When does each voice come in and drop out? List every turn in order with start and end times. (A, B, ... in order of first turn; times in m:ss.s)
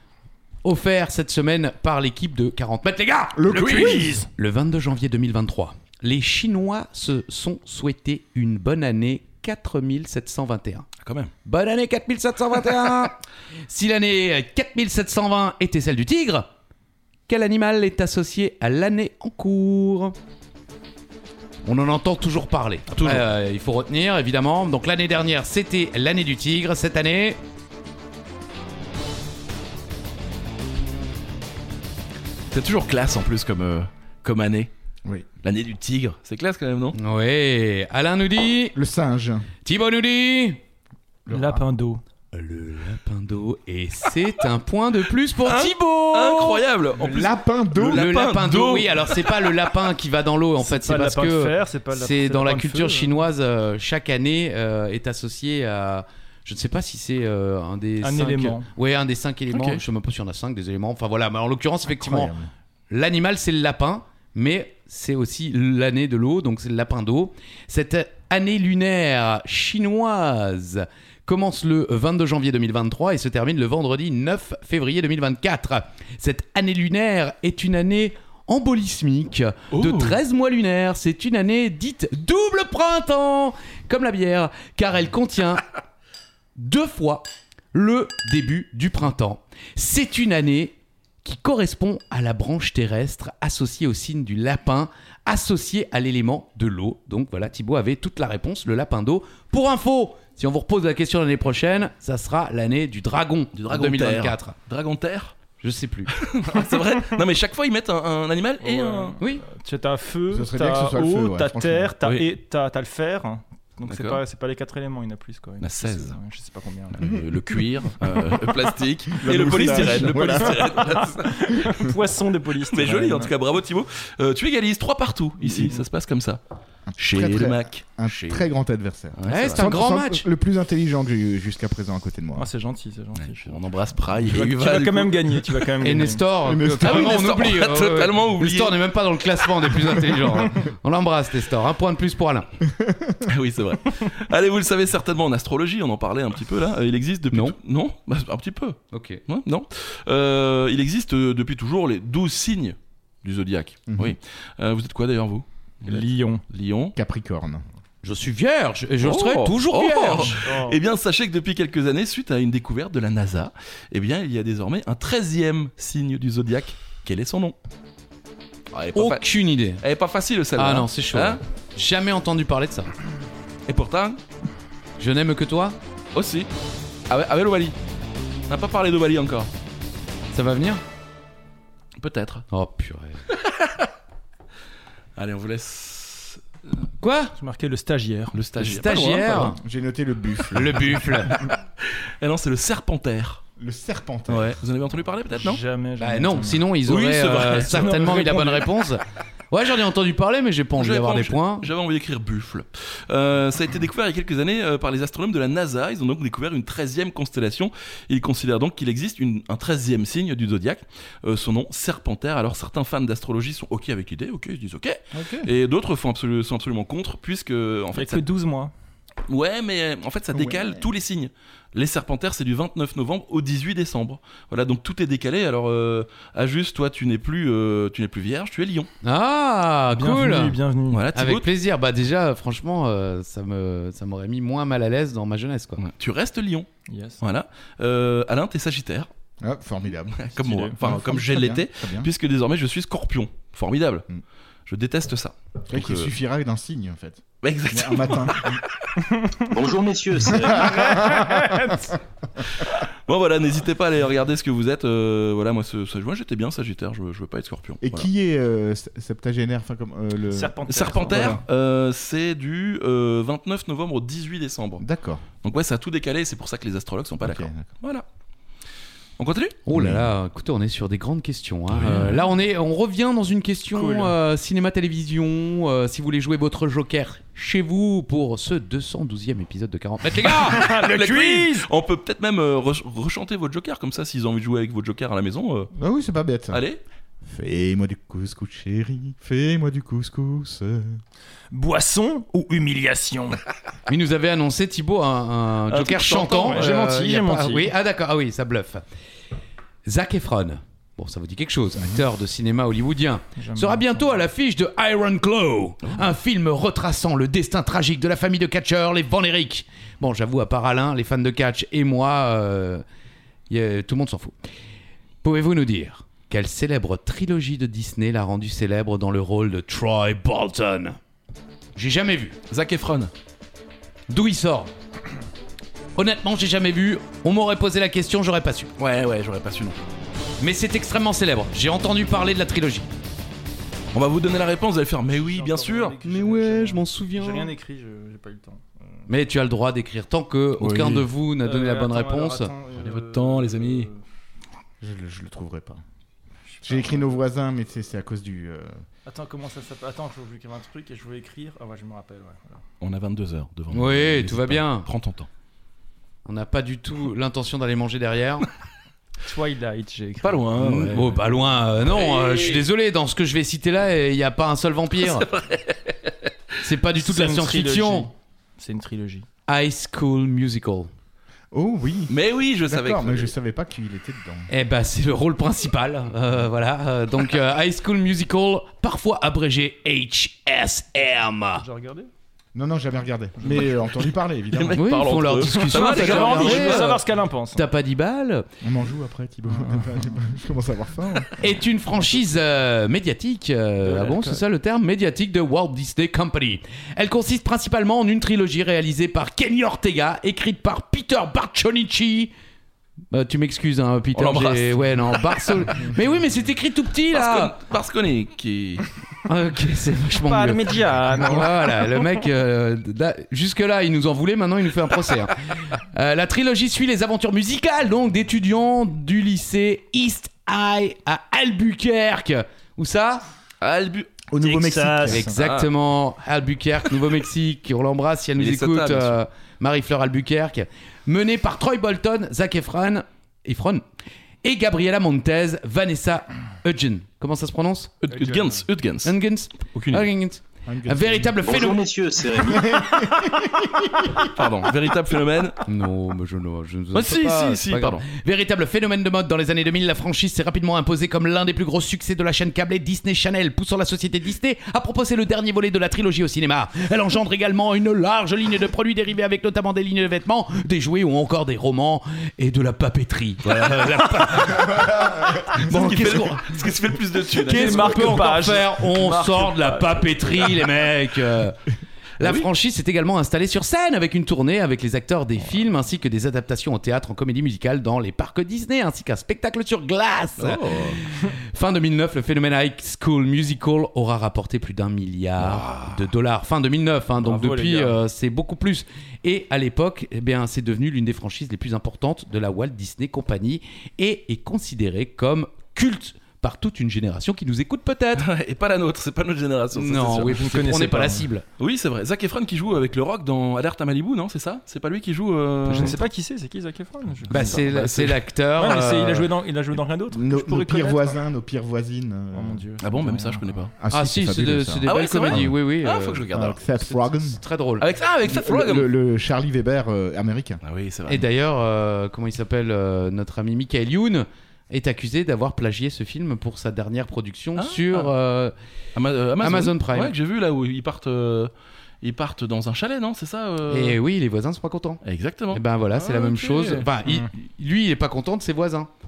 0:00.6-0:10.9 A
0:03.4-0:04.3 B
0:03.5-0:04.1 C
0:11.0-0:11.3 C
0:11.4-0:16.5 A
0:17.3-0:20.1 A
0:21.6-0:27.4 A
0:32.5-0:34.7 C
0:35.4-0:37.0 C
0:36.9-0:38.8 A
0:38.7-0:39.5 B
0:39.6-0:40.6 A
0:41.2-0:41.6 B
0:41.3-0:42.0 D
0:42.3-0:46.6 A
0:45.4-0:49.4 C
0:47.0-0:48.1 B
0:47.9-1:02.3 A
0:50.6-0:53.2 D
0:58.0-0:58.7 D
0:59.5-0:59.8 C
1:01.9-1:02.5 B
1:02.9-1:25.6 A
1:19.7-1:20.2 C
1:26.6-1:44.5 A
1:43.5-1:45.4 C
1:45.6-1:46.1 A
1:46.1-1:49.2 C
1:48.6-1:57.1 D
1:49.2-1:49.4 A
1:50.3-1:51.9 B
1:53.8-1:54.2 C
1:55.6-1:56.2 C
1:56.9-2:01.7 C
1:59.1-2:00.9 B
1:59.8-2:00.3 D
2:01.2-2:03.3 D
2:02.6-2:06.4 C
2:05.4-2:05.8 D
2:06.9-2:12.5 B
2:07.0-2:08.5 C
2:09.1-2:09.7 C
2:09.3-2:10.2 A
2:12.3-2:13.6 D
2:13.2-2:15.6 C
2:14.2-2:16.3 D
2:15.8-2:22.5 A
2:16.4-2:17.3 B
2:16.8-2:18.8 C
2:22.8-2:23.2 B
2:23.2-2:37.0 C
2:27.3-2:27.6 A
2:28.9-2:29.2 A
2:33.9-2:34.2 B
2:35.8-2:36.4 D
2:37.0-2:37.6 B
2:38.0-2:40.4 A
2:39.0-2:47.6 C
2:40.3-2:40.8 D
2:48.7-2:49.2 C
2:48.9-2:49.8 A
2:49.8-2:51.4 C
2:50.6-2:52.9 A
2:53.7-2:54.2 C
2:55.0-2:55.8 A
2:56.1-2:56.5 C
2:57.1-2:57.8 C
2:58.5-2:59.5 C
3:00.3-3:00.8 A
3:02.0-3:02.4 C
3:02.5-3:03.2 A
3:03.3-3:03.9 C
3:05.2-3:06.4 C
3:07.0-3:07.3 A
3:07.4-3:08.4 D
3:08.3-3:09.5 C
3:08.6-3:09.6 A
3:09.4-3:11.1 B
3:10.5-3:11.3 A
3:11.4-3:13.4 C
3:13.6-3:14.5 B
3:14.3-3:15.6 C
3:15.4-3:16.7 D
3:16.0-3:21.7 A
3:16.8-3:18.4 C
3:17.4-3:18.6 D
3:20.8-3:38.2 C
3:35.1-3:35.5 B
3:37.9-3:38.7 D
3:39.3-3:48.9 C
3:40.3-3:40.9 B
3:49.0-3:50.6 A
3:49.9-3:51.1 D
3:50.9-3:51.5 C
3:51.1-3:55.8 A
3:55.8-3:56.7 C
3:56.9-3:57.2 D
3:57.2-3:59.1 C
3:59.4-4:02.1 B
4:00.2-4:04.0 C
4:00.4-4:00.8 D
4:04.7-4:06.1 C
4:05.7-4:08.6 B
4:07.4-4:08.9 C
4:09.0-4:09.5 D
4:09.5-4:11.0 E
4:10.4-4:11.8 B
4:10.5-4:11.9 D
4:12.6-4:18.1 C
4:17.8-4:21.4 B
4:20.3-4:21.4 D
4:20.7-4:24.8 C
4:24.8-4:25.2 B
4:25.4-4:28.0 C
4:27.2-4:27.7 B
4:29.2-4:29.6 C
4:29.6-4:40.7 A
4:29.7-4:30.0 B
4:31.7-4:32.2 C
4:33.7-4:34.1 D
4:40.3-4:41.7 D
4:40.4-4:45.7 C
4:45.7-4:46.6 B
4:46.5-4:46.8 C
4:47.2-4:51.0 B
4:51.5-4:53.4 D
4:53.9-4:58.8 A
4:55.7-4:56.6 C
4:56.4-4:57.7 D
4:59.8-5:12.8 A
5:03.4-5:04.0 D
5:13.5-5:14.3 A
5:15.2-5:21.0 A
5:21.7-5:22.4 A
5:22.5-5:23.1 C
5:24.1-5:24.7 A
5:26.0-5:28.7 A
5:28.8-5:29.8 C
5:30.4-5:32.9 A
5:33.9-5:36.0 C
5:35.1-5:39.0 D
5:36.0-5:37.5 A
5:39.1-5:42.5 A
5:40.6-5:41.0 C
5:41.4-5:44.0 D
5:42.7-5:43.9 C
5:44.8-5:45.8 B
5:46.5-5:47.2 D
5:46.6-5:48.8 B
5:49.0-5:52.6 D
5:52.8-5:55.3 C
5:53.7-5:54.9 A
5:56.2-5:58.4 A
5:59.2-6:01.5 D
6:00.2-6:01.1 C
6:00.6-6:05.2 A
6:01.9-6:02.6 C
6:05.0-6:06.2 C
6:06.6-6:08.1 A
6:07.0-6:09.2 D
6:09.5-6:10.9 A
6:11.5-6:12.1 B
6:12.1-6:13.3 C
6:12.6-6:14.5 B
6:14.5-6:21.6 A
6:21.6-6:22.1 D
6:22.5-6:24.8 B
6:24.5-6:27.0 C
6:24.7-6:28.4 A
6:25.6-6:27.7 D
6:28.6-6:31.4 B
6:31.4-6:42.3 A
6:33.8-6:34.4 D
6:43.1-6:47.5 A
6:44.1-6:44.8 C
6:47.1-6:48.8 C
6:49.2-7:03.2 A
6:50.2-6:52.0 D
7:03.6-7:04.1 C
7:04.3-7:05.3 B
7:04.4-7:05.3 D
7:05.1-7:13.8 A
7:05.3-7:05.7 C
7:08.4-7:09.2 C
7:14.4-7:17.9 A
7:18.0-7:20.1 C
7:18.1-7:18.6 D
7:19.0-7:21.8 A
7:20.6-7:21.4 B
7:21.4-7:23.2 E
7:22.4-7:24.3 B
7:24.3-7:25.6 C
7:25.6-7:46.6 A
7:26.9-7:28.0 C
7:44.7-7:45.3 B
7:45.6-7:48.4 C
7:47.3-7:51.6 A
7:47.4-7:50.7 D
7:52.2-7:52.5 C
7:52.2-8:18.2 A
8:00.4-8:01.0 C
8:05.4-8:06.0 C
8:07.2-8:08.0 D
8:18.2-8:20.4 C
8:19.7-8:21.4 A
8:20.2-8:21.3 D
8:21.6-8:26.0 C
8:25.7-8:27.7 D
8:27.3-8:28.2 C
8:27.3-8:29.3 A
8:28.6-8:31.2 D
8:30.1-8:32.6 B
8:32.3-8:33.5 D
8:32.8-8:33.7 C
8:33.8-8:35.5 B
8:33.9-8:36.3 A
8:34.8-8:37.0 C
8:36.3-8:37.4 B
8:37.3-8:37.8 A
8:37.8-8:38.9 C
8:38.2-8:40.6 B
8:40.6-8:41.2 C
8:41.1-8:48.5 A
8:47.6-8:48.1 C
8:48.9-8:54.0 C
8:49.4-8:50.1 A
8:53.7-8:58.9 A
8:55.0-8:56.9 C